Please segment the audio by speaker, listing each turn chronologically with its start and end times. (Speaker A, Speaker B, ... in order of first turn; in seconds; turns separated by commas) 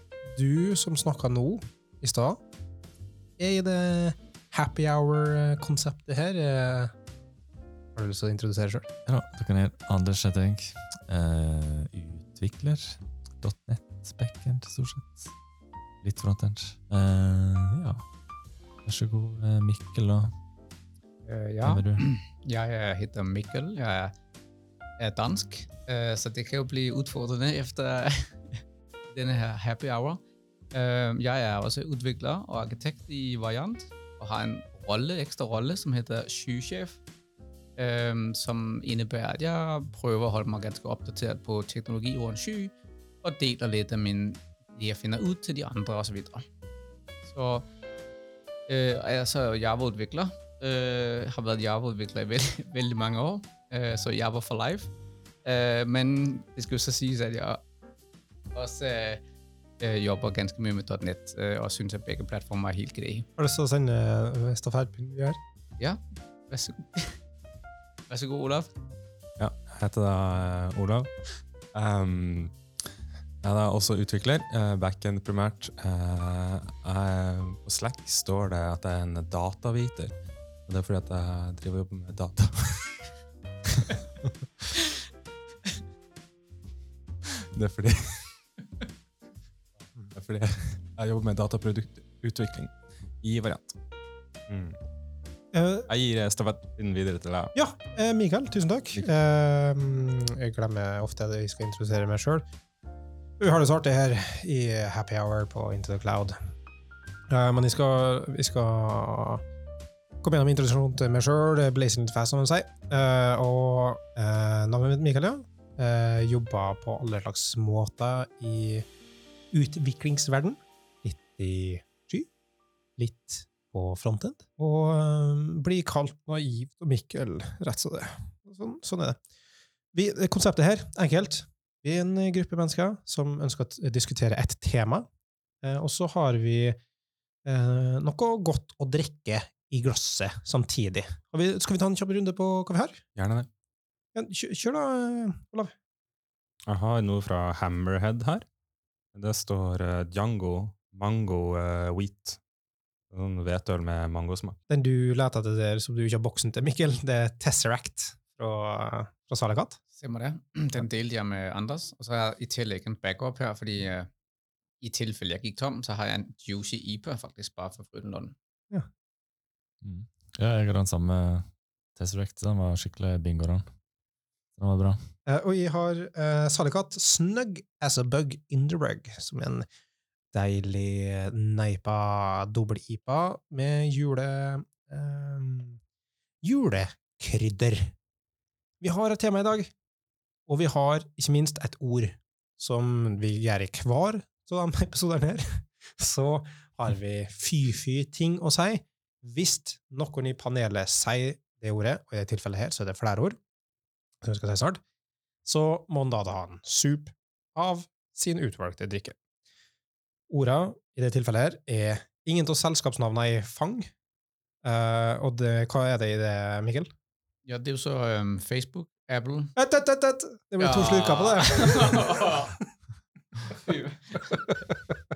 Speaker A: 0.3-2.4, Speaker A: 3.4-6.9, Speaker A: 8.0-8.9, Speaker B: 9.1-15.3, Speaker B: 16.0-18.0, Speaker B: 18.9-20.3, Speaker C: 21.3-24.1, Speaker B: 21.6-22.1, Speaker C: 25.0-30.2, Speaker C: 30.7-37.0, Speaker C: 37.8-46.5, Speaker C: 47.3-47.7, Speaker C: 48.7-54.9, Speaker C: 55.5-57.6, Speaker C: 58.5-59.2, Speaker C: 59.8-63.3, Speaker A: 63.4-65.4, Speaker C: 65.8-67.2, Speaker C: 68.1-68.7, Speaker D: 69.4-72.6, Speaker D: 73.4-80.2, Speaker D: 80.7-83.0, Speaker D: 87.5-88.4, Speaker D: 90.1-93.8, Speaker D: 94.5-94.8, Speaker A: 95.5-95.9, Speaker D: 95.9-97.5, Speaker A: 97.5-102.5, Speaker A: 103.4-106.4, Speaker A: 107.3-109.4, Speaker A: 110.2-118.9, Speaker A: 119.5-122.3, Speaker A: 123.0-129.2, Speaker A: 129.9-135.1, Speaker A: 135.6-136.8, Speaker A: 137.4-143.0, Speaker D: 143.2-143.5, Speaker A: 144.2-145.7, Speaker D: 146.7-148.5, Speaker D: 149.1-152.4, Speaker D: 153.1-154.6, Speaker A: 154.7-159.8, Speaker C: 159.9-164.1, Speaker C: 164.8-168.4, Speaker B: 169.8-173.7, Speaker B: 174.6-175.0, Speaker A: 175.3-179.7, Speaker A: 180.3-185.8, Speaker A: 186.4-187.9, Speaker A: 188.8-189.7, Speaker A: 190.5-203.4, Speaker A: 204.2-204.8, Speaker A: 205.4-209.2, Speaker A: 210.3-213.9, Speaker A: 214.6-216.9, Speaker C: 217.5-219.6, Speaker A: 219.6-222.6, Speaker C: 220.6-222.6, Speaker C: 223.5-224.4, Speaker A: 224.5-225.0